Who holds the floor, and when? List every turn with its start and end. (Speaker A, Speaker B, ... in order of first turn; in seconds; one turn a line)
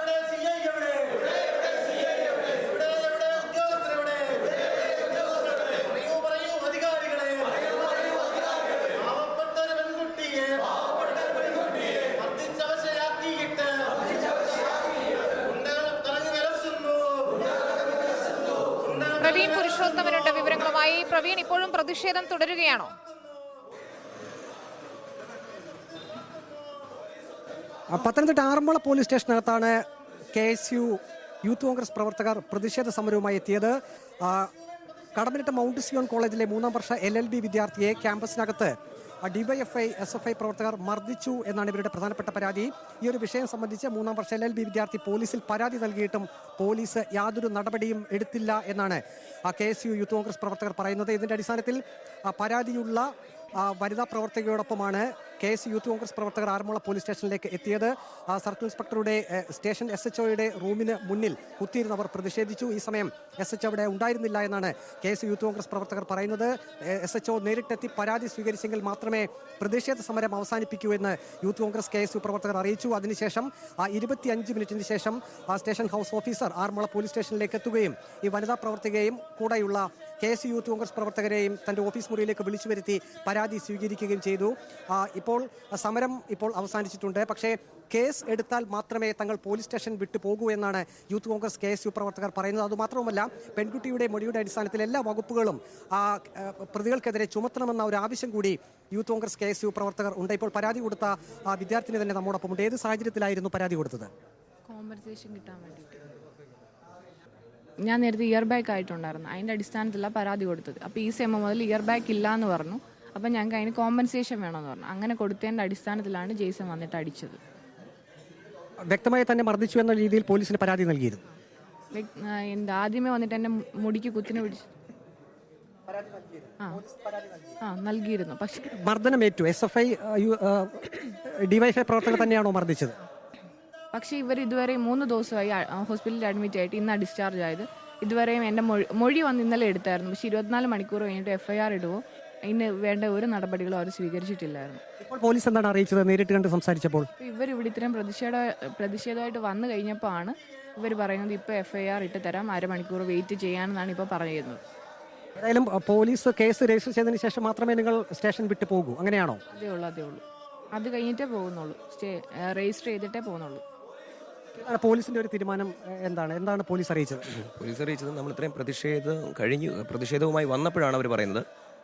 Speaker A: 19.0-22.9
Speaker B: 27.9-29.8
Speaker B: 30.3-34.5
Speaker B: 35.2-38.7
Speaker B: 39.2-104.1
Speaker C: 104.7-106.0
Speaker C: 107.8-117.4
Speaker B: 118.9-121.2
Speaker C: 121.9-124.7
Speaker C: 127.6-128.6
Speaker B: 128.7-133.0
Speaker C: 133.9-144.8
Speaker B: 145.0-147.1
Speaker C: 147.2-154.6
Speaker B: 155.4-159.4
Speaker C: 159.5-160.2
Speaker C: 160.8-163.6
Speaker B: 164.6-167.4
Speaker D: 167.4-171.5